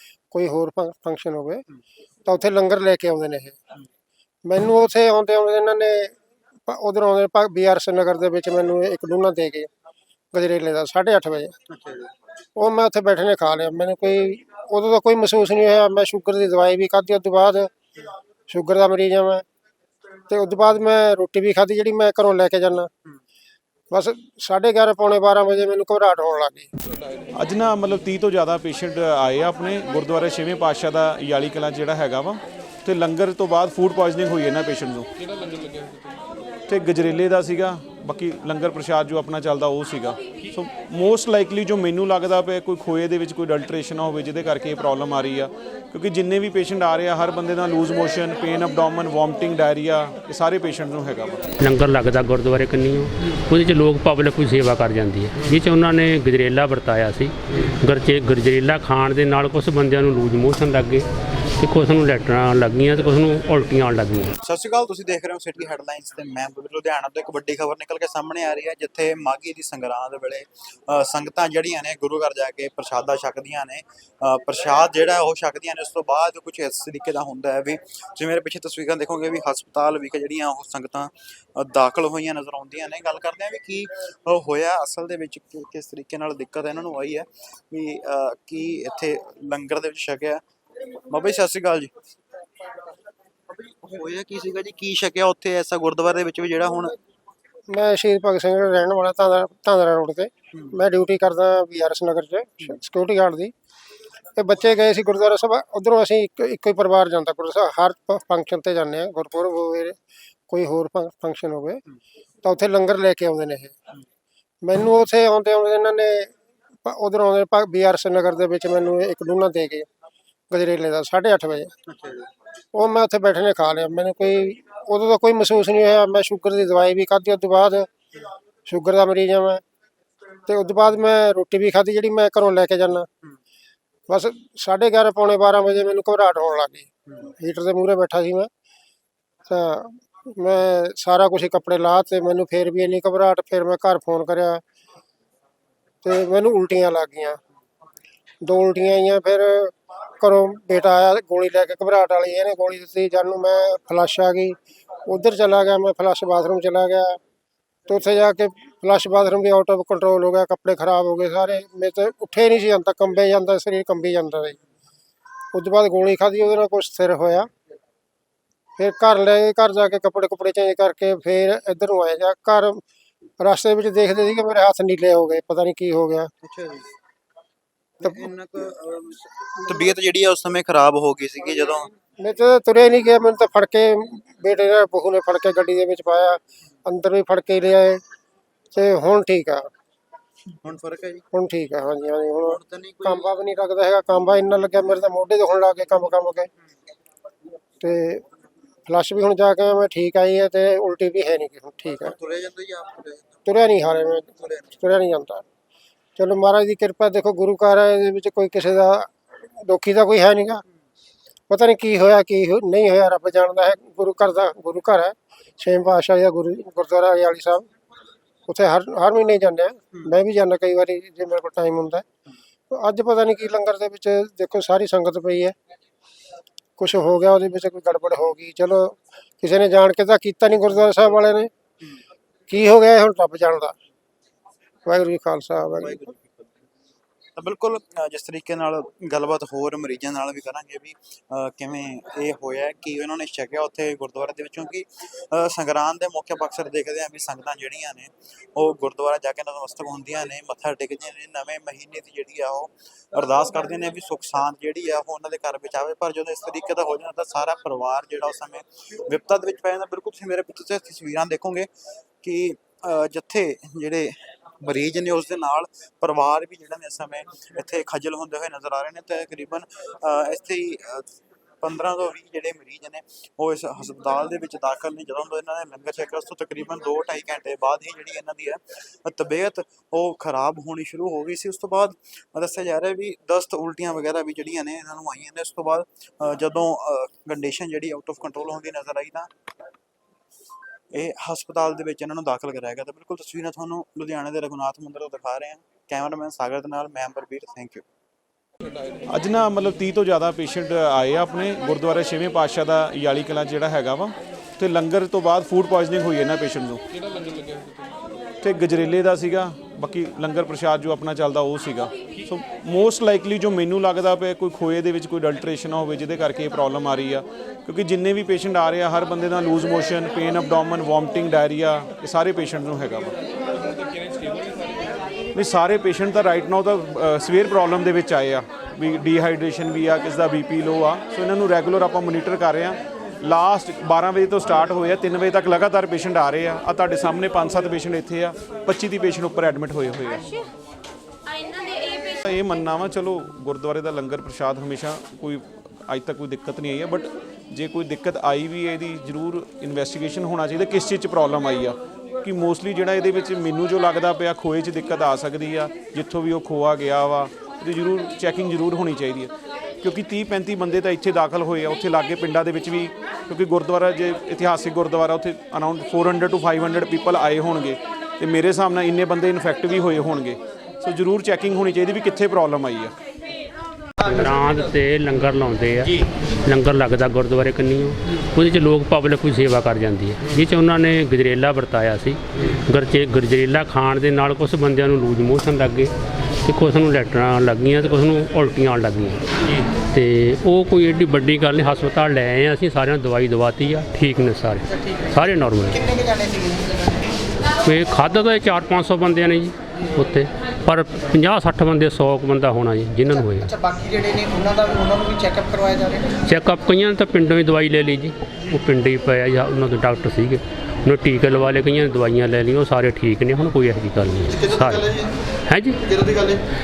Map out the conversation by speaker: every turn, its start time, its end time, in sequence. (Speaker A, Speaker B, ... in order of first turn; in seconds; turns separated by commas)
Speaker A: 0.3-1.6, Speaker A: 2.3-3.6, Speaker A: 4.5-6.1, Speaker A: 6.7-9.7, Speaker A: 10.3-11.6, Speaker A: 12.6-17.7, Speaker A: 18.5-19.4, Speaker A: 20.3-22.9, Speaker A: 23.9-26.7, Speaker B: 27.4-35.1, Speaker B: 36.7-51.5, Speaker C: 51.6-61.1, Speaker C: 61.6-64.3, Speaker D: 64.4-90.4, Speaker D: 91.1-91.9, Speaker D: 93.6-97.0, Speaker A: 97.7-103.5, Speaker A: 104.4-110.0, Speaker A: 110.5-111.8, Speaker A: 112.4-113.8, Speaker A: 114.6-116.3, Speaker A: 116.8-119.9, Speaker A: 120.5-121.7, Speaker D: 122.0-122.2, Speaker A: 122.7-127.9, Speaker A: 128.7-129.6, Speaker A: 130.5-133.1, Speaker A: 134.1-138.5, Speaker A: 139.5-144.6, Speaker A: 146.0-147.4, Speaker A: 148.4-157.2, Speaker A: 157.9-164.6, Speaker A: 165.5-167.5, Speaker A: 168.8-172.8, Speaker A: 173.4-176.3, Speaker D: 176.4-176.9, Speaker D: 178.0-181.9, Speaker A: 182.2-188.0, Speaker A: 188.7-189.7, Speaker D: 190.6-191.2, Speaker A: 191.3-196.5, Speaker D: 192.5-193.2, Speaker A: 197.8-198.2, Speaker A: 198.9-202.1, Speaker D: 202.0-203.5, Speaker A: 203.5-205.4, Speaker D: 204.3-204.8, Speaker A: 206.2-210.6, Speaker A: 211.5-217.7, Speaker A: 218.5-222.1, Speaker A: 222.7-225.5, Speaker A: 226.8-231.5, Speaker A: 232.5-233.7, Speaker A: 234.9-236.1, Speaker D: 237.4-261.7, Speaker D: 262.2-271.1, Speaker D: 271.6-289.3, Speaker D: 290.9-297.8, Speaker B: 299.1-306.8, Speaker B: 308.4-323.1, Speaker B: 325.4-340.3, Speaker B: 342.2-359.3, Speaker B: 359.8-372.9, Speaker C: 374.0-385.9, Speaker C: 386.4-389.2, Speaker C: 389.9-395.9, Speaker E: 395.7-396.6, Speaker C: 397.6-403.5, Speaker E: 403.4-406.1, Speaker C: 406.2-414.9, Speaker C: 415.5-416.0